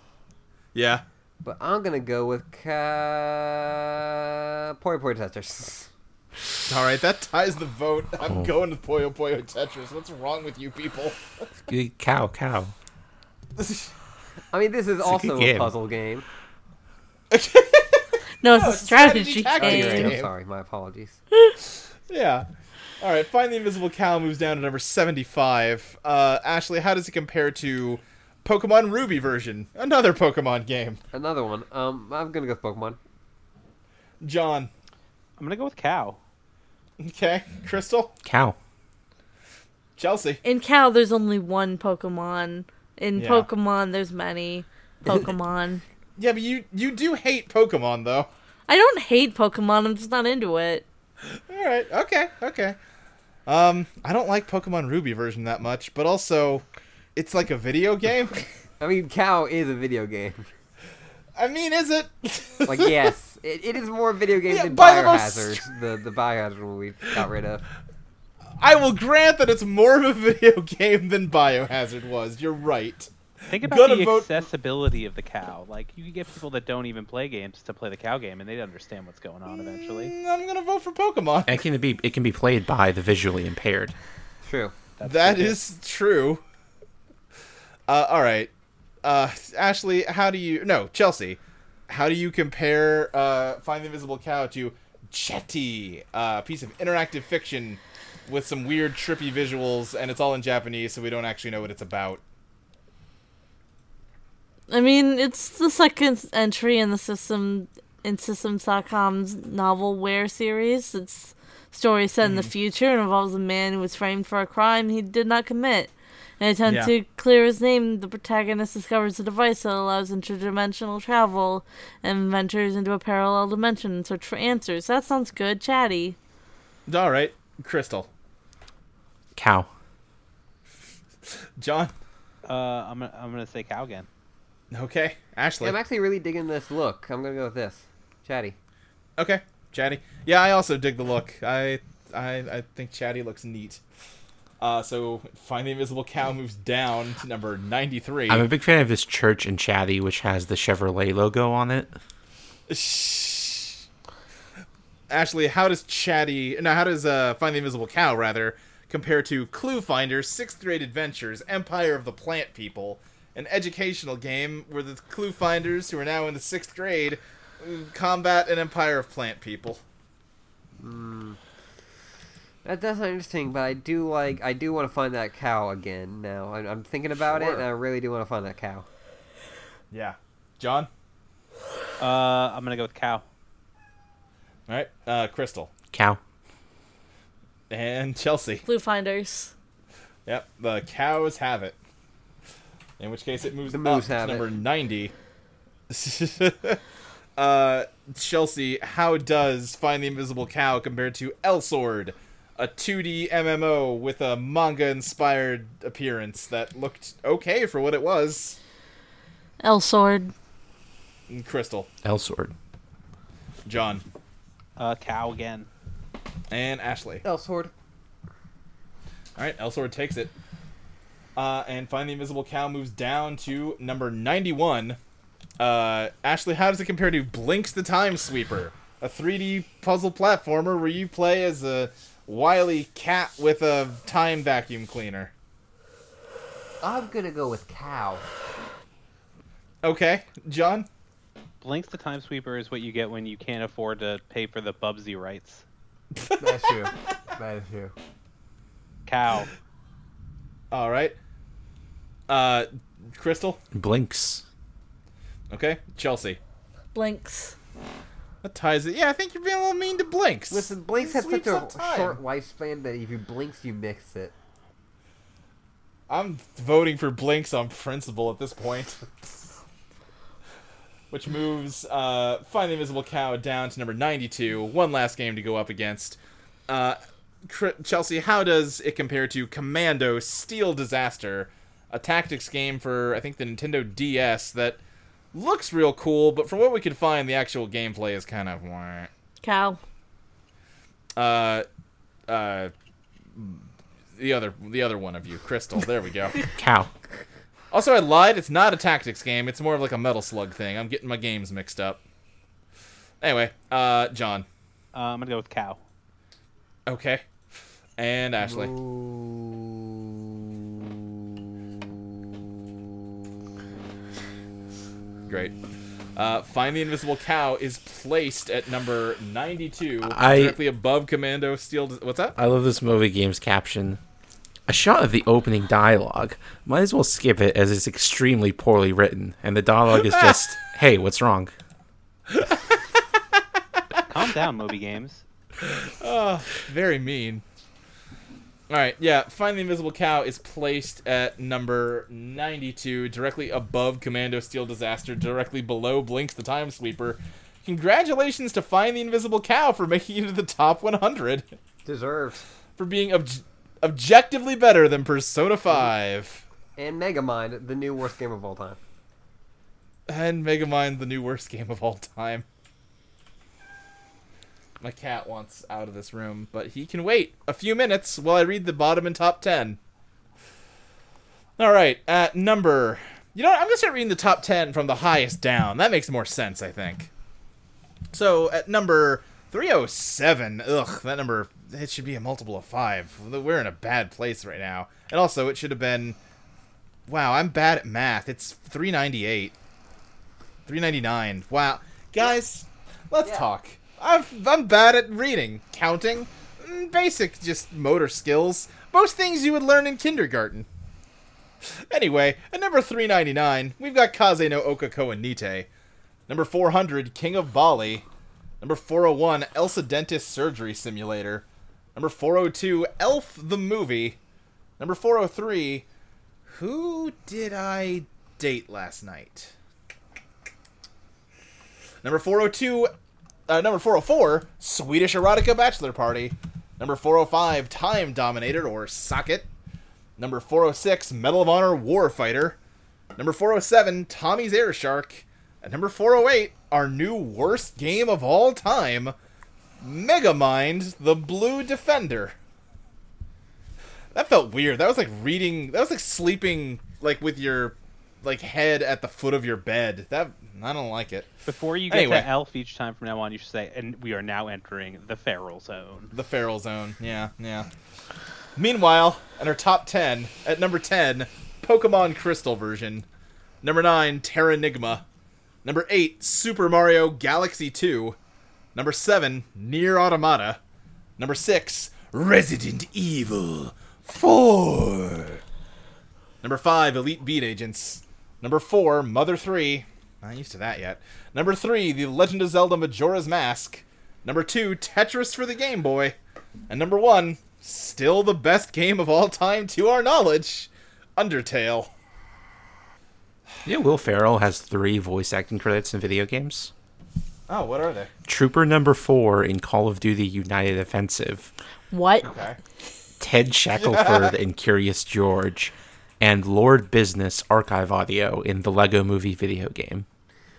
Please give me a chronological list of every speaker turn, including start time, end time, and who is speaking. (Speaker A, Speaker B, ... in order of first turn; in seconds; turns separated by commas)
Speaker A: 0.8-1.0, Speaker B: 1.4-5.9, Speaker A: 6.7-11.4, Speaker C: 11.7-12.7, Speaker A: 13.6-13.9, Speaker B: 14.5-16.3, Speaker C: 15.0-15.7, Speaker A: 17.3-20.3, Speaker D: 18.4-20.2, Speaker B: 19.6-21.2, Speaker A: 22.1-22.5, Speaker A: 23.0-31.0, Speaker B: 31.1-33.0, Speaker A: 34.2-34.7, Speaker E: 35.4-36.2, Speaker A: 37.0-38.1, Speaker C: 38.2-38.6, Speaker A: 40.0-40.4, Speaker D: 40.4-45.8, Speaker A: 43.1-43.5, Speaker A: 46.2-48.3, Speaker D: 48.7-50.9, Speaker A: 51.5-52.8, Speaker A: 53.5-56.6, Speaker A: 57.2-58.4, Speaker B: 58.8-60.5, Speaker A: 61.4-63.1, Speaker B: 62.7-67.7, Speaker A: 64.5-65.7, Speaker A: 68.6-74.4, Speaker E: 73.5-80.1, Speaker A: 79.5-81.6, Speaker C: 81.5-84.0, Speaker B: 84.5-84.7, Speaker E: 85.0-85.6, Speaker A: 85.0-86.4, Speaker A: 87.9-88.5, Speaker A: 89.0-102.2, Speaker D: 104.7-126.2, Speaker A: 112.2-112.5, Speaker A: 116.7-116.9, Speaker A: 126.9-128.1, Speaker C: 129.3-129.7, Speaker A: 131.3-131.9, Speaker E: 132.4-134.1, Speaker A: 134.7-135.8, Speaker B: 135.6-138.6, Speaker A: 139.2-143.8, Speaker A: 144.6-148.4, Speaker C: 148.3-152.0, Speaker A: 152.7-153.8, Speaker A: 155.1-169.8, Speaker B: 170.8-171.4, Speaker B: 172.7-178.9, Speaker A: 177.3-177.6, Speaker A: 179.9-180.9, Speaker E: 182.0-183.2, Speaker A: 184.7-185.7, Speaker C: 185.9-186.2, Speaker A: 187.7-188.7, Speaker D: 188.7-189.5, Speaker A: 190.3-191.8, Speaker A: 193.0-195.1, Speaker B: 193.7-194.5, Speaker A: 195.9-196.8, Speaker A: 197.4-208.6, Speaker D: 209.6-210.3, Speaker A: 211.3-211.9, Speaker C: 212.0-212.5, Speaker A: 213.7-214.0, Speaker E: 214.8-215.7, Speaker A: 216.5-217.2, Speaker B: 217.2-217.7, Speaker A: 219.4-220.3, Speaker A: 221.4-225.0, Speaker A: 225.6-235.3, Speaker B: 236.8-238.2, Speaker A: 239.8-240.9, Speaker E: 241.6-245.6, Speaker B: 246.4-247.9, Speaker E: 249.1-249.5, Speaker A: 250.7-251.2, Speaker A: 252.3-253.6, Speaker C: 253.7-254.4, Speaker A: 255.5-256.4, Speaker D: 256.9-257.6, Speaker A: 258.4-262.2, Speaker B: 260.5-264.3, Speaker A: 266.1-269.4, Speaker A: 271.1-284.8, Speaker A: 285.3-289.1, Speaker D: 289.4-289.8, Speaker A: 291.2-291.6, Speaker A: 292.3-292.7, Speaker A: 293.3-293.6, Speaker A: 294.2-296.4, Speaker C: 296.4-296.9, Speaker A: 297.7-302.0, Speaker A: 303.2-304.5, Speaker E: 304.9-305.8, Speaker A: 306.9-307.2, Speaker A: 308.0-308.7, Speaker B: 308.4-310.5, Speaker A: 315.3-315.5, Speaker A: 316.1-322.4, Speaker C: 320.0-320.6, Speaker C: 322.4-324.0, Speaker C: 324.7-331.5, Speaker A: 332.3-332.6, Speaker E: 334.1-335.2, Speaker A: 335.6-337.4, Speaker A: 338.7-351.5, Speaker B: 351.9-352.4, Speaker A: 352.8-356.4, Speaker B: 356.8-358.8, Speaker A: 360.1-362.5, Speaker A: 364.8-369.8, Speaker A: 371.6-377.1, Speaker A: 378.1-386.2, Speaker A: 387.1-389.6, Speaker A: 390.7-400.7, Speaker A: 401.9-405.7, Speaker A: 406.3-408.1, Speaker A: 408.6-414.2, Speaker A: 414.8-415.9, Speaker A: 416.5-419.5, Speaker A: 422.0-422.9, Speaker A: 423.5-429.5, Speaker A: 430.2-432.6, Speaker A: 433.2-439.1, Speaker A: 439.8-442.4, Speaker A: 444.1-451.3, Speaker E: 451.5-456.1, Speaker A: 451.9-452.3, Speaker A: 456.1-457.7, Speaker A: 458.6-463.1, Speaker A: 463.6-465.1, Speaker A: 465.6-468.2, Speaker A: 468.8-470.6, Speaker A: 471.2-475.4, Speaker A: 476.4-486.2, Speaker A: 486.7-491.9, Speaker C: 493.6-496.7, Speaker A: 497.5-498.1, Speaker C: 498.3-501.5, Speaker D: 501.9-502.3, Speaker A: 502.2-502.6, Speaker C: 503.2-510.1, Speaker A: 503.7-504.3